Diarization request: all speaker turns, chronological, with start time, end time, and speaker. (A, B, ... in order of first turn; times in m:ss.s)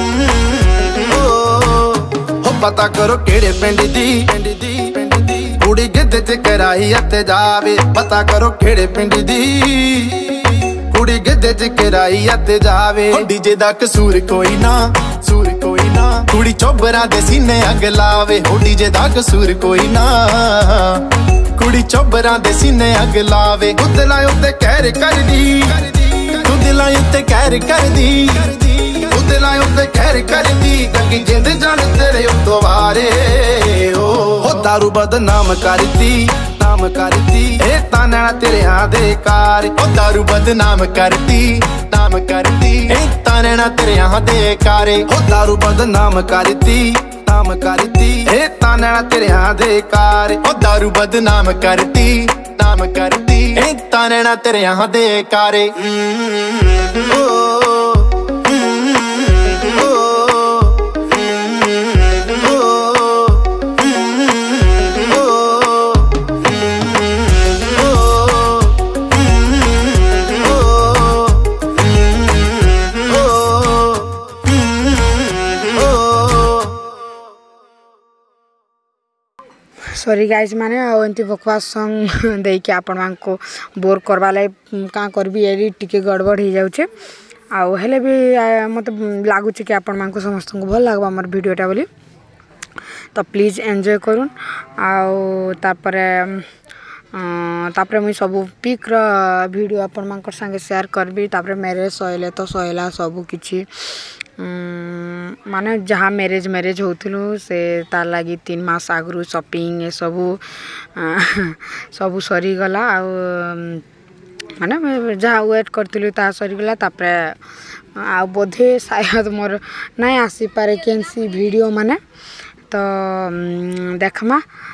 0:00.9-0:13.2 A
0:13.1-0:23.8 B
0:23.8-0:26.4 A
0:26.4-0:28.9 B
0:29.0-0:39.7 A
0:39.8-0:45.0 B
0:45.1-0:50.4 A
0:50.4-0:55.7 B
1:20.0-1:26.9 C
1:27.5-1:31.9 C
1:33.1-1:36.5 C
1:37.1-1:53.8 C
1:54.6-1:57.4 C
1:58.0-2:02.0 C
2:02.7-2:04.4 C